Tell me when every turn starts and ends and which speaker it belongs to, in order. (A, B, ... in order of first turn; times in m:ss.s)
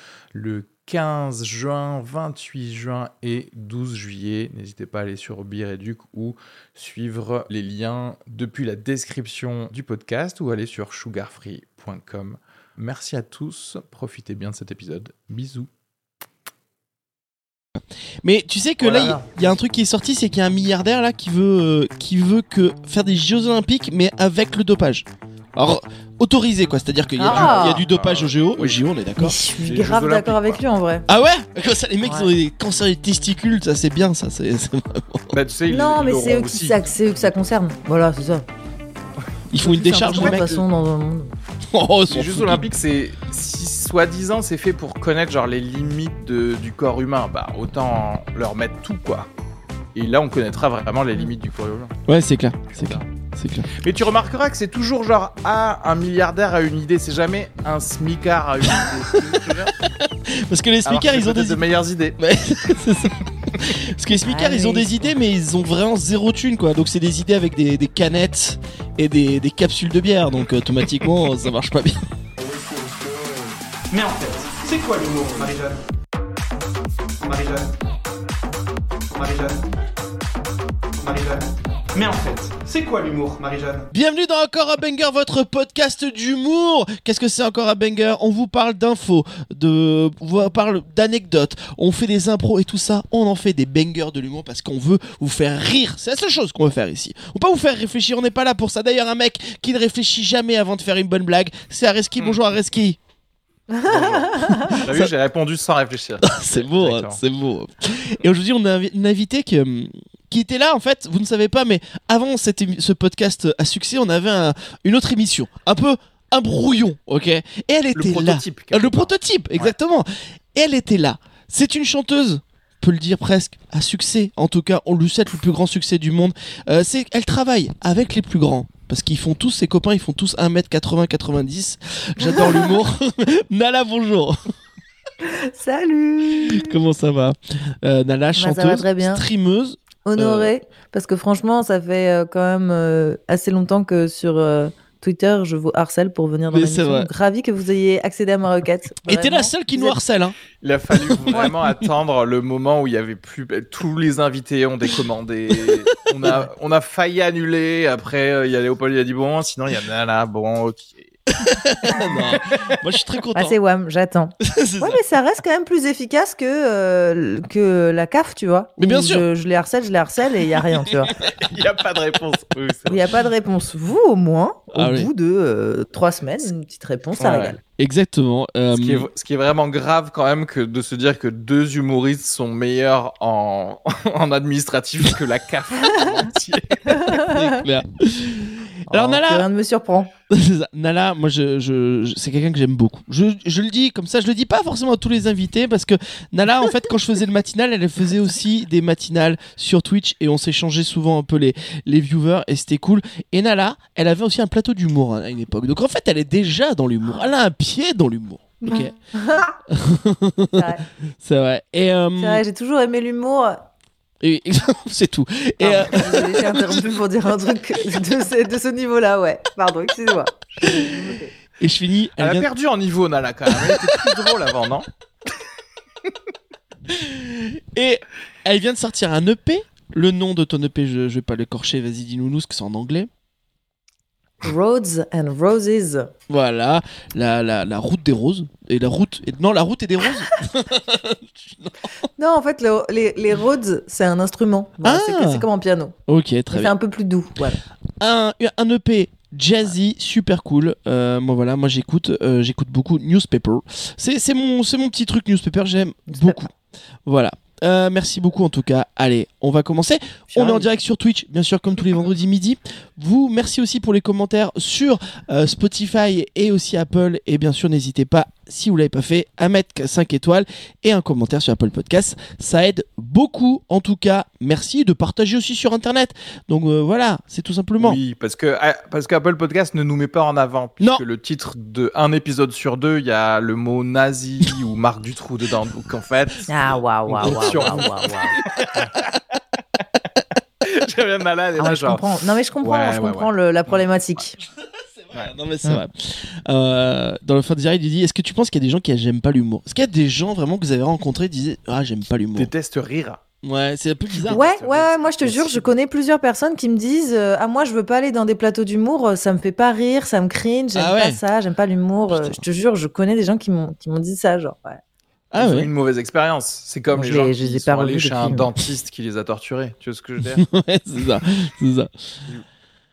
0:00.3-0:15.7 A
0:18.2-0:29.3 B
0:18.8-0:19.2 A
0:27.2-0:27.8 C
0:27.2-0:28.8 A
0:29.2-0:31.1 C
0:29.6-0:30.6 A
0:31.1-0:35.3 B
0:32.0-0:32.3 C
0:35.3-0:36.9 A
0:35.7-0:38.4 C
0:39.5-0:40.5 B
0:39.6-0:41.3 C
0:40.1-0:40.6 A
0:41.6-0:42.7 B
0:42.1-0:49.3 A
0:49.9-0:51.9 A
0:52.1-0:53.7 B
0:52.7-0:53.0 A
0:53.8-0:59.7 A
0:58.7-1:01.6 B
1:00.8-1:02.2 A
1:02.2-1:12.0 B
1:04.2-1:05.1 C
1:13.9-1:15.8 D
1:17.2-1:17.7 D
1:19.1-1:19.6 D
1:21.0-1:23.9 D
1:23.9-1:43.0 B
1:43.7-1:44.8 C
1:43.8-1:47.2 A
1:44.5-1:45.1 B
1:46.2-2:14.4 B
1:57.9-1:59.7 A
2:12.2-2:12.7 C
2:15.2-2:16.8 C
2:16.4-2:20.5 B
2:18.4-2:19.2 C
2:20.0-2:30.0 C
2:26.5-2:27.1 B
2:29.0-2:30.4 B
2:30.6-2:41.2 A
2:30.9-2:31.8 B
2:41.4-2:43.6 B
2:41.9-2:42.8 A
2:43.3-2:51.1 C
2:44.4-2:45.0 B
2:48.8-2:49.2 B
2:51.2-2:53.0 A
2:52.9-2:57.6 C
2:54.7-2:55.1 B
2:57.2-2:57.6 A
2:57.8-2:59.1 B
2:58.7-3:07.1 A
3:06.9-3:07.6 C
3:07.1-3:09.5 B
3:08.9-3:10.1 C
3:10.3-3:28.9 B
3:28.6-3:29.6 C
3:29.7-3:30.7 B
3:30.5-3:30.8 C
3:31.2-3:32.4 B
3:32.2-3:33.6 C
3:34.2-3:37.0 B
3:35.6-3:41.3 C
3:40.6-3:41.0 B
3:41.6-3:42.5 B
3:42.2-3:44.8 A
3:43.5-3:44.2 B
3:46.9-3:53.1 B
3:54.4-3:56.1 C
3:56.3-4:01.9 B
4:02.2-4:06.0 C
4:04.8-4:05.4 B
4:06.1-4:06.7 B
4:06.5-4:07.6 C
4:08.0-4:16.5 B
4:16.1-4:16.5 C
4:17.0-4:38.0 B
4:37.8-4:46.5 A
4:46.5-4:48.1 C
4:47.1-4:49.1 A
4:47.2-4:47.9 B
4:48.5-4:48.8 B
4:50.6-4:52.0 A
4:51.6-4:54.4 C
4:52.6-4:53.8 A
4:54.6-5:02.5 B
5:02.4-5:03.2 A
5:03.4-5:04.4 B
5:04.2-5:05.6 A
5:04.3-5:14.8 C
5:10.7-5:11.2 B
5:12.1-5:12.4 B
5:15.3-5:15.7 B
5:15.4-5:20.4 A
5:16.9-5:18.5 C
5:20.3-5:21.9 B